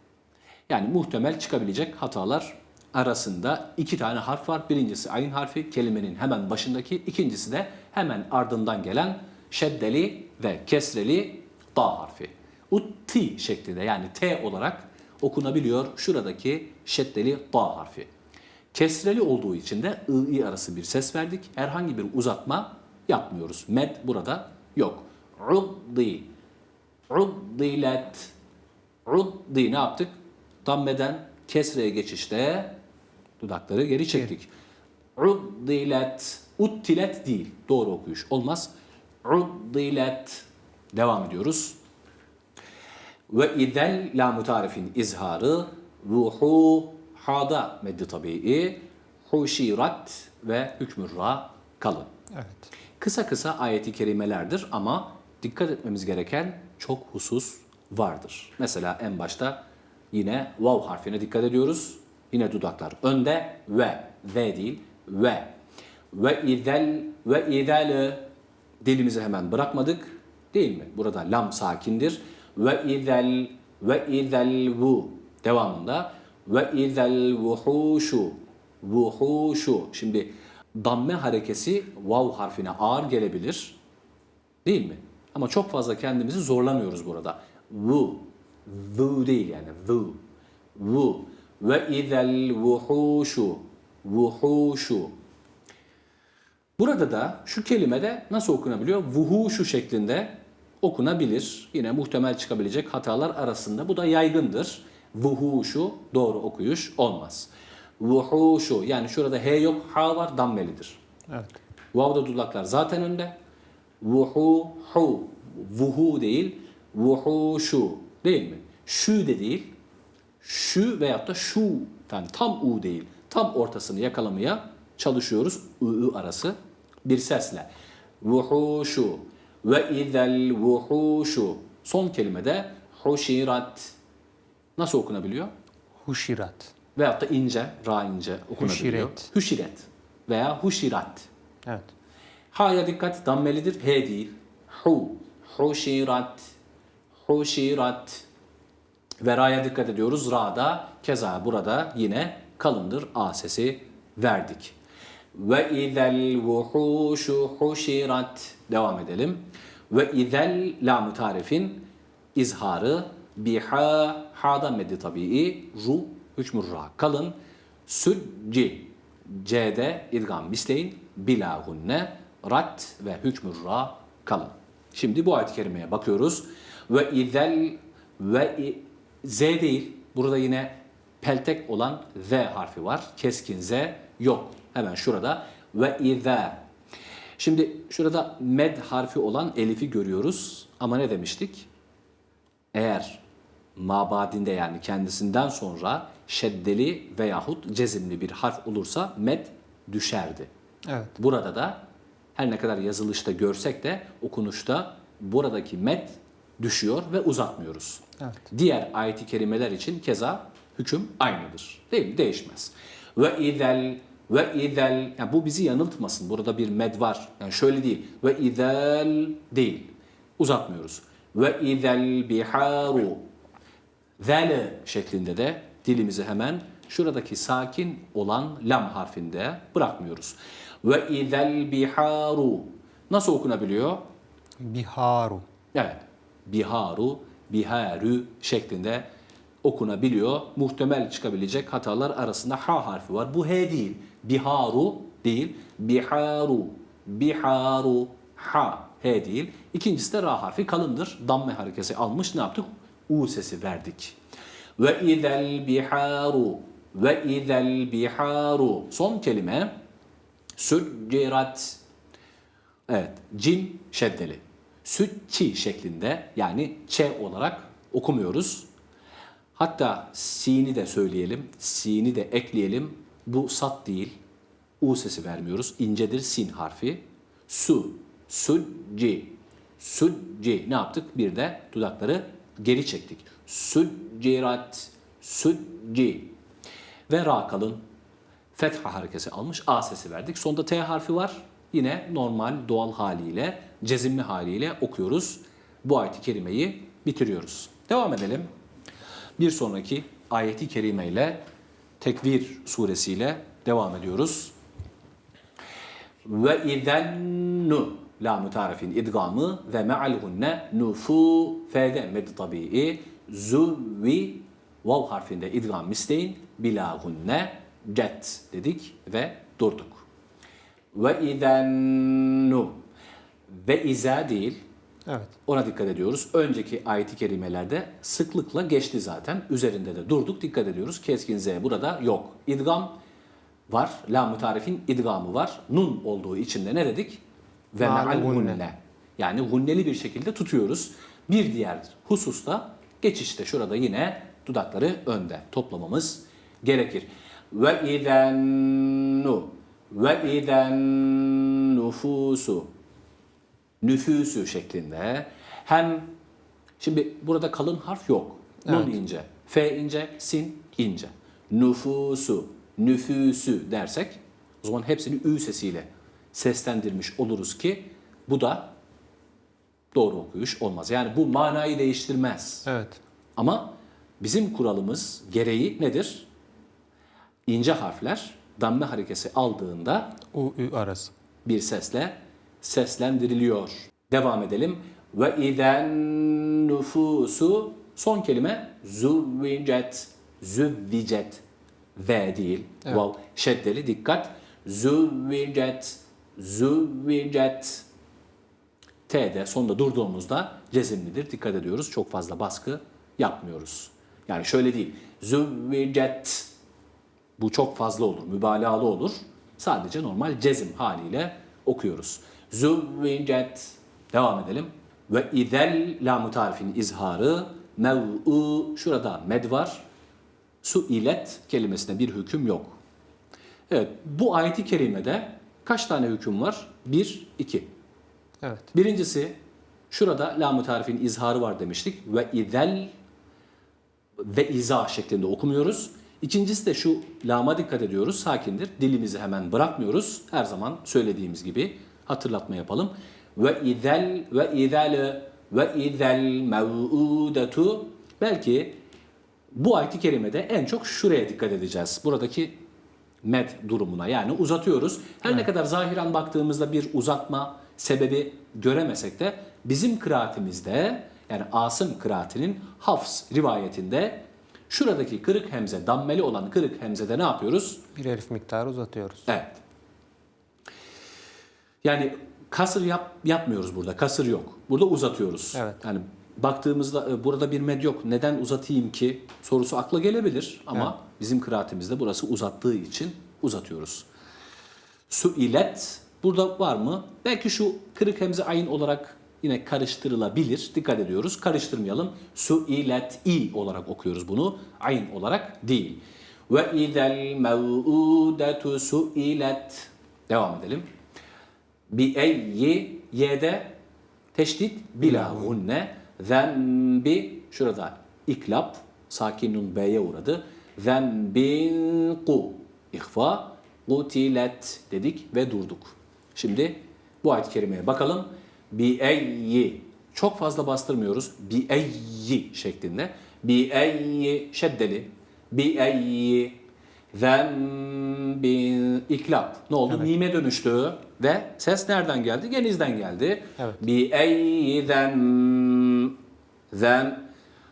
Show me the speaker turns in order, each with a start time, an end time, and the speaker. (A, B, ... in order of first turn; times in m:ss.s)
0:00.7-0:18.1 A
0:18.7-0:26.3 A
0:27.1-0:28.3 A
0:29.1-0:32.8 A
0:33.4-0:34.5 A
0:35.2-0:38.7 A
0:39.2-0:41.8 A
0:43.3-0:52.1 A
0:52.3-0:52.7 B
0:53.0-0:59.6 A
1:00.1-1:05.5 A
1:06.1-1:08.2 A
1:08.8-1:23.8 A
1:24.6-1:30.2 A
1:30.8-1:35.1 A
1:36.8-1:51.0 A
1:51.3-1:51.6 B
1:51.9-1:53.4 A
1:54.0-1:59.7 A
2:00.4-2:07.7 A
2:08.2-2:14.0 A
2:14.8-2:15.5 A
2:16.0-2:16.7 B
2:17.0-2:21.3 A
2:18.6-2:19.3 B
2:21.6-2:21.9 B
2:22.5-2:26.5 A
2:27.2-2:28.3 A
2:29.2-2:34.8 A
2:35.3-2:47.4 A
2:47.9-3:06.6 A
3:07.4-3:11.7 A
3:12.7-3:13.2 A
3:13.8-3:20.5 A
3:20.9-3:21.1 B
3:21.2-3:21.8 A
3:22.4-3:43.2 A
3:44.2-3:54.0 A
3:54.6-3:55.5 B
3:55.7-3:59.1 A
3:59.6-4:14.2 A
4:14.8-4:19.7 A
4:20.6-4:21.8 A
4:22.9-4:28.7 A
4:29.6-4:34.2 A
4:34.8-4:46.3 A
4:47.1-4:47.8 A
4:48.6-4:58.5 A
4:59.4-5:01.4 A
5:02.0-5:04.5 A
5:06.2-5:20.0 A
5:20.9-5:22.8 A
5:23.5-5:24.6 A
5:25.1-5:25.3 B
5:25.5-5:33.0 A
5:33.7-5:37.2 A
5:37.7-5:52.7 A
5:37.8-5:38.6 B
5:53.8-5:56.1 A
5:56.8-6:08.7 A
5:58.7-5:59.0 B
6:09.9-6:12.7 A
6:12.7-6:13.0 B
6:13.4-6:16.3 A
6:17.5-6:20.2 A
6:20.3-6:21.1 B
6:21.4-6:31.4 A
6:32.0-6:37.9 A
6:39.1-6:46.5 A
6:47.4-6:59.8 A
7:00.6-7:02.8 A
7:03.7-7:07.7 A
7:08.4-7:08.7 B
7:08.7-7:09.4 A
7:09.9-7:12.9 A
7:14.2-7:28.8 A
7:29.6-7:32.6 A
7:33.2-7:47.8 A
7:48.0-7:49.3 B
7:49.3-7:49.6 A
7:51.8-8:04.1 A
7:55.6-7:55.8 B
8:05.1-8:20.9 A
8:21.9-8:23.8 A
8:24.3-8:46.6 A
8:25.0-8:25.6 B
8:47.1-8:56.2 A
8:56.7-8:57.3 A